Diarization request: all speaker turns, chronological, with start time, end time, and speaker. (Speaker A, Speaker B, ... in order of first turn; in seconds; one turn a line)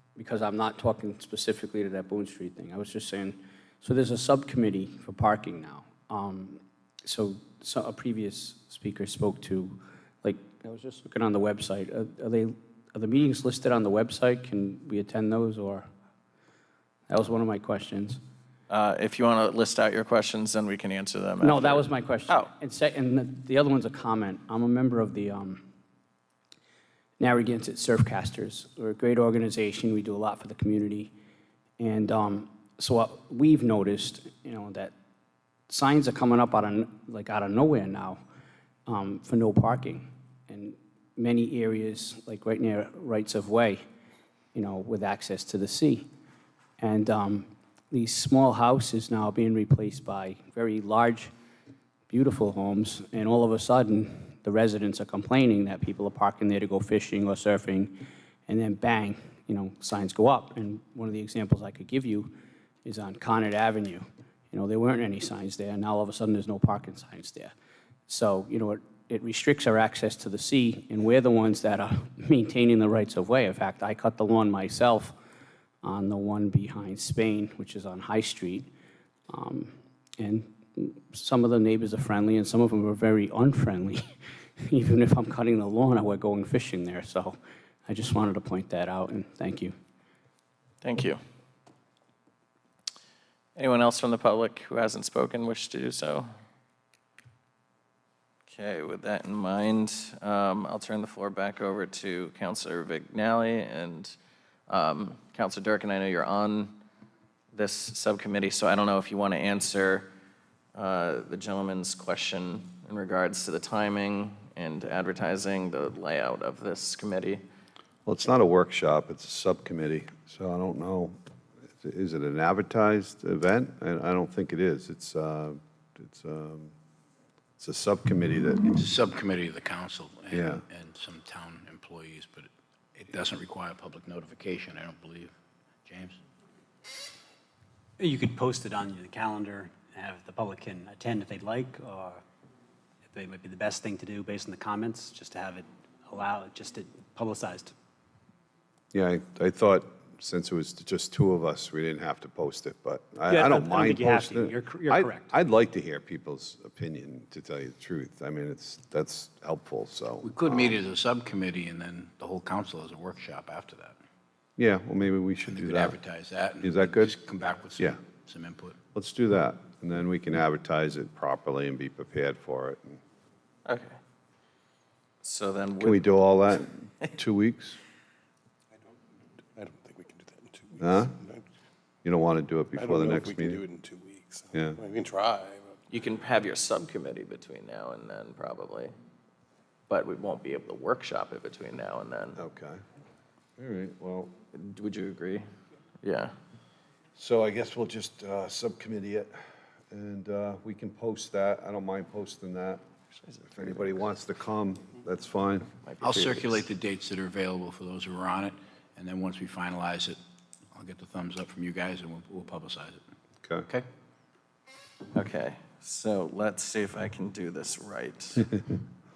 Speaker A: 0.2-15.9
Speaker A: 17.1-18.2
Speaker B: 18.7-22.5
Speaker A: 21.4-25.7
Speaker A: 27.2-31.1
Speaker A: 31.8-34.9
Speaker A: 35.7-38.2
Speaker A: 38.9-43.8
Speaker A: 44.5-46.1
Speaker A: 46.8-51.3
Speaker A: 52.1-58.0
Speaker A: 58.5-62.3
Speaker A: 62.8-67.5
Speaker A: 68.1-75.1
Speaker A: 75.8-78.7
Speaker A: 79.3-84.0
Speaker A: 84.6-89.7
Speaker B: 90.8-91.2
Speaker B: 93.5-96.3
Speaker B: 98.5-104.2
Speaker B: 104.7-106.7
Speaker B: 107.5-110.1
Speaker B: 110.7-117.4
Speaker C: 118.0-121.2
Speaker C: 121.8-126.7
Speaker C: 127.6-128.8
Speaker D: 128.7-135.3
Speaker C: 130.3-130.6
Speaker D: 135.9-136.2
Speaker E: 138.0-142.2
Speaker E: 143.1-147.8
Speaker C: 148.9-160.8
Speaker E: 153.3-155.3
Speaker D: 160.2-163.9
Speaker C: 164.6-166.0
Speaker D: 165.5-168.8
Speaker C: 166.6-167.2
Speaker C: 168.9-173.0
Speaker B: 173.7-173.9
Speaker B: 175.2-176.2
Speaker C: 175.8-177.8
Speaker F: 179.5-181.4
Speaker C: 180.8-181.2
Speaker C: 182.0-183.6
Speaker F: 182.8-185.8
Speaker C: 184.5-184.8
Speaker B: 185.9-188.9
Speaker B: 189.9-192.4
Speaker C: 192.4-192.8
Speaker C: 193.6-194.3
Speaker B: 194.5-195.4
Speaker B: 196.0-196.3
Speaker C: 197.2-199.4
Speaker C: 199.9-202.8
Speaker B: 203.3-203.9
Speaker C: 203.5-205.7
Speaker B: 205.8-206.7
Speaker D: 206.0-210.2
Speaker D: 210.7-213.0
Speaker B: 215.1-218.6